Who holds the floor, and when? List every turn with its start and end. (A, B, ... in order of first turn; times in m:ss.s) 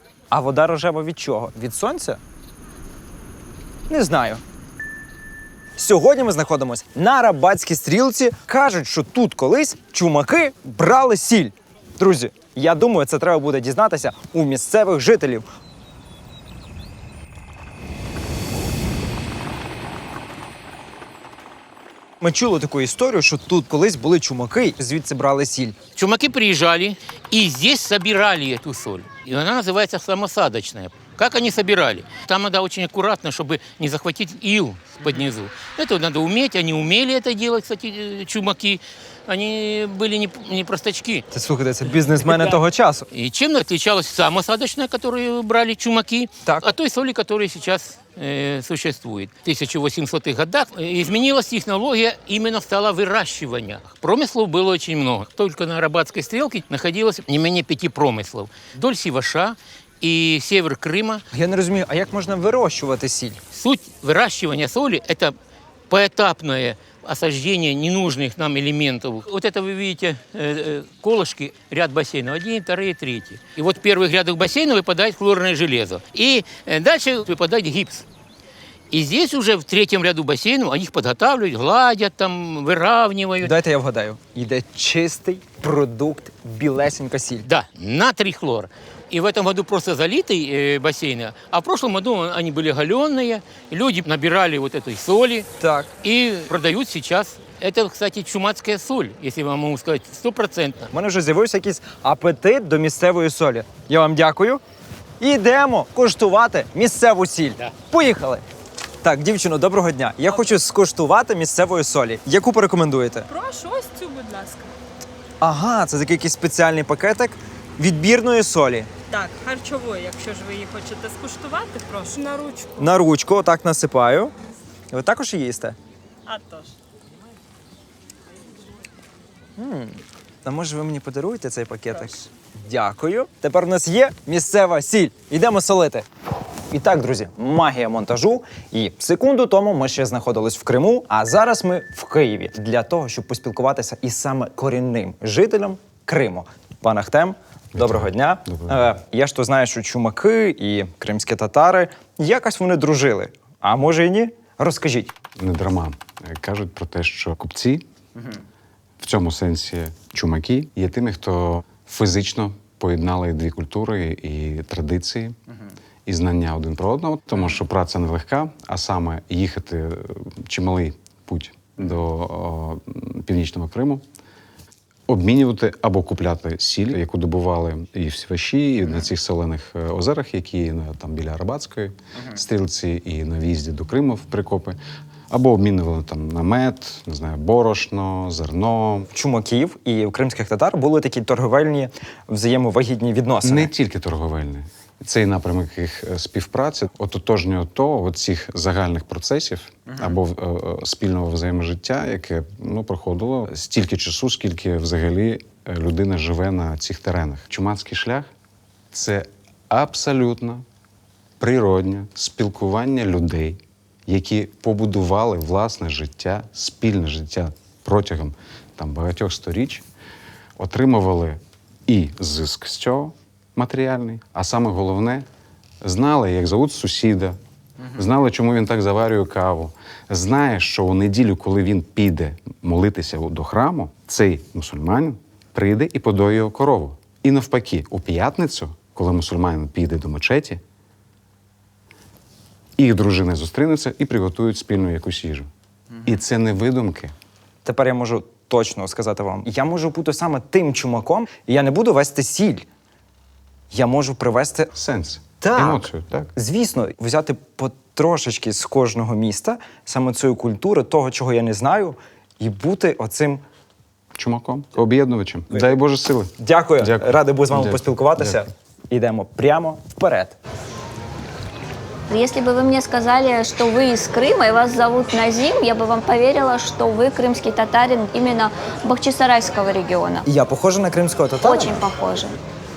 0:00.3-0:02.2 A
0:03.9-0:04.4 A
0:05.8-0:15.4 A
0:22.2-0:25.8 A
0:25.9-0:41.2 B
0:41.3-0:43.1 A
0:42.2-0:42.6 B
0:43.1-1:01.2 B
1:01.3-1:03.4 A
1:03.5-1:05.3 B
1:05.9-1:18.0 B
1:18.9-1:23.5 B
1:23.4-1:27.5 A
1:27.4-1:35.5 B
1:35.6-1:35.9 A
1:36.0-1:40.9 B
1:40.9-1:44.6 A
1:45.2-1:48.4 A
1:49.0-1:53.3 A
1:53.3-1:54.7 C
1:55.4-1:58.9 A
1:59.1-2:02.8 C
2:02.8-2:04.3 A
2:04.9-2:05.8 A
2:06.3-2:06.7 C
2:09.6-2:16.0 A
2:16.7-2:35.1 A
2:27.7-2:28.9 D
2:35.4-2:37.8 D
2:39.0-2:45.4 D
2:46.0-2:54.0 D
2:55.1-3:04.8 D
3:05.3-3:09.1 D
3:09.1-3:13.7 A
3:13.4-3:28.3 D
3:28.9-3:30.6 D
3:31.4-3:39.8 D
3:40.6-3:45.2 D
3:45.8-3:47.4 D
3:47.9-4:00.6 D
4:02.8-4:05.5 D
4:06.0-4:07.1 D
4:07.6-4:12.6 A
4:13.7-4:14.7 A
4:14.7-4:16.3 D
4:15.4-4:23.4 A
4:24.1-4:28.4 D
4:26.4-4:30.4 A
4:32.1-4:40.2 E
4:40.2-4:41.7 A
4:41.4-4:42.4 E